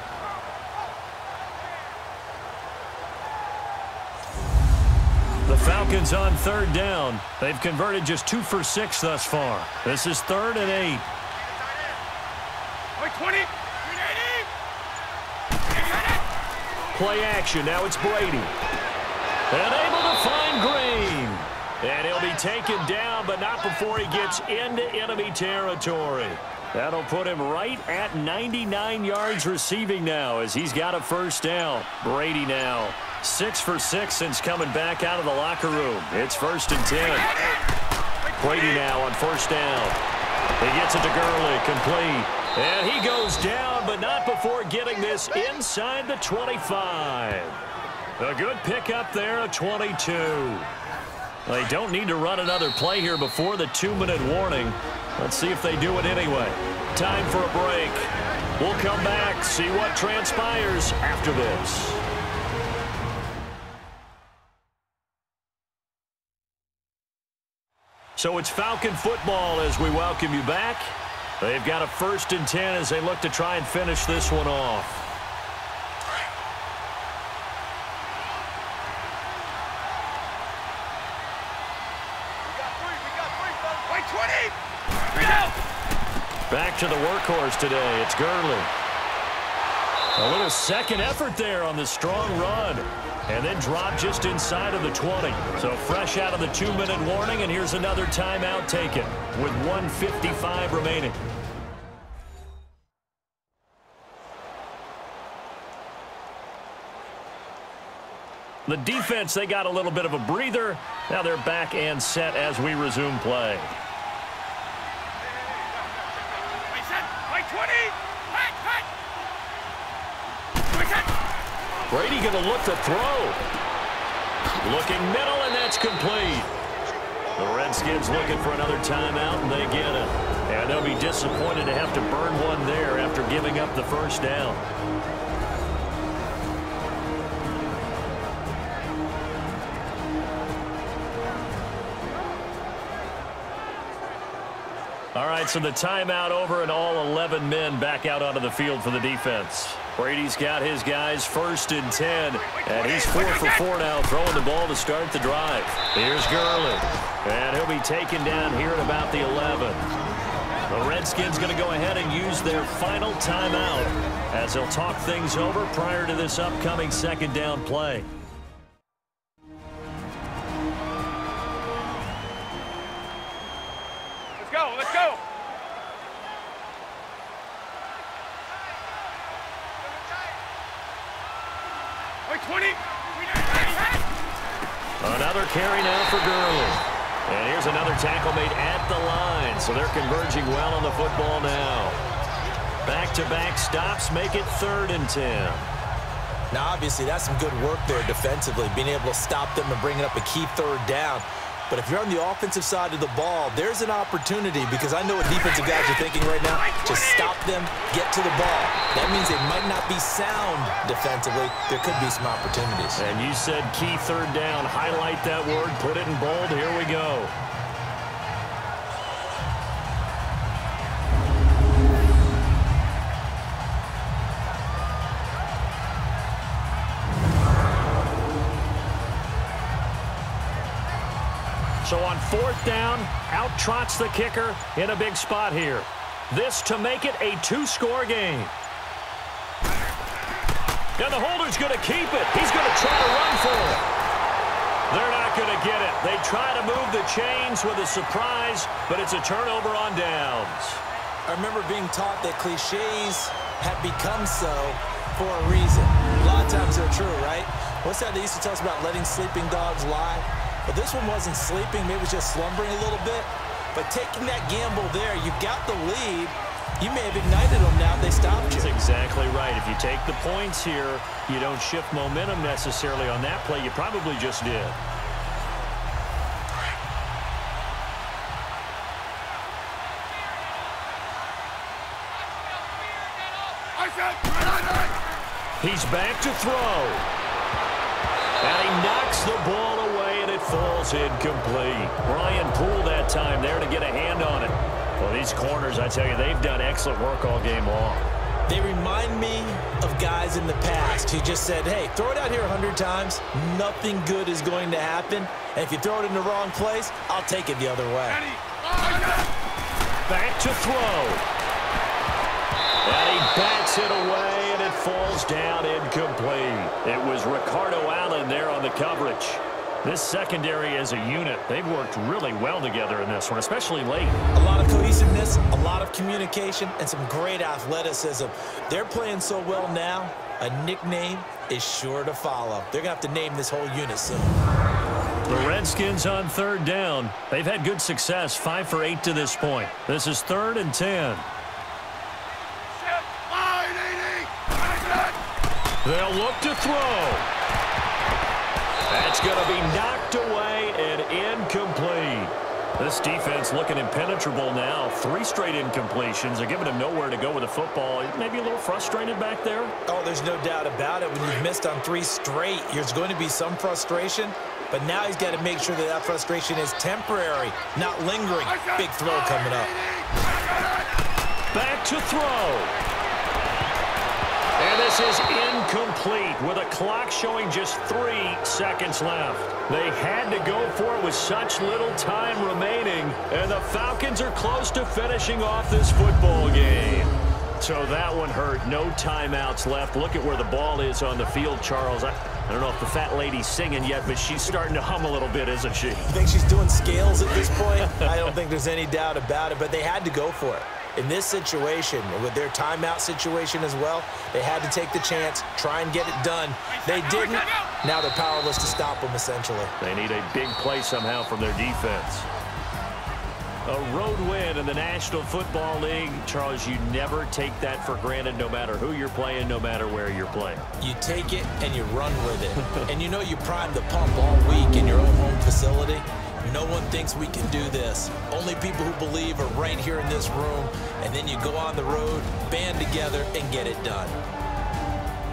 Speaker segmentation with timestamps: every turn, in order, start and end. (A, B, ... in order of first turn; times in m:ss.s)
0:05.4-0:11.0 A
0:13.0-0:14.5 B
0:15.7-0:16.1 B
0:16.9-0:18.5 A
0:19.5-0:37.3 A
0:37.3-0:37.5 B
0:38.4-0:40.0 A
0:40.6-0:47.6 A
0:48.2-0:50.7 A
0:51.4-1:02.0 A
1:08.2-1:15.0 A
1:23.7-1:24.6 B
1:25.1-1:25.5 B
1:26.5-1:28.7 A
1:30.2-1:41.2 A
1:48.6-1:53.7 A
1:56.5-1:58.9 B
2:00.7-2:01.1 B
2:01.9-2:03.4 A
2:04.6-2:06.5 A
2:07.4-2:14.6 A
2:25.1-2:39.8 A
2:32.5-2:33.6 B
2:40.7-2:48.1 A
2:54.4-2:55.2 B
3:02.2-3:04.0 B
3:05.0-3:12.0 A
3:12.8-3:15.7 A
3:16.5-3:33.0 C
3:26.4-3:27.3 B
3:33.0-3:37.3 A
3:51.8-3:58.5 A
4:01.0-4:03.8 A
4:04.9-4:10.8 A
4:11.3-4:28.7 C
4:28.5-4:34.8 A
4:43.6-4:45.1 B
4:45.6-4:47.0 A
4:48.4-4:58.1 A
4:58.5-5:08.2 C
5:08.1-5:09.3 B
5:10.1-5:11.2 A
5:12.8-5:24.2 A
5:24.3-5:34.4 C
5:35.3-5:41.3 A
5:42.7-5:45.2 B
5:45.8-5:47.3 A
5:48.9-5:59.7 A
5:59.8-6:09.7 C
6:08.5-6:10.1 B
6:11.5-6:12.7 A
6:14.6-6:36.1 A
6:36.1-6:49.7 C
6:46.8-6:47.7 B
6:49.8-6:52.3 A
6:53.6-7:00.6 A
7:00.8-7:14.2 C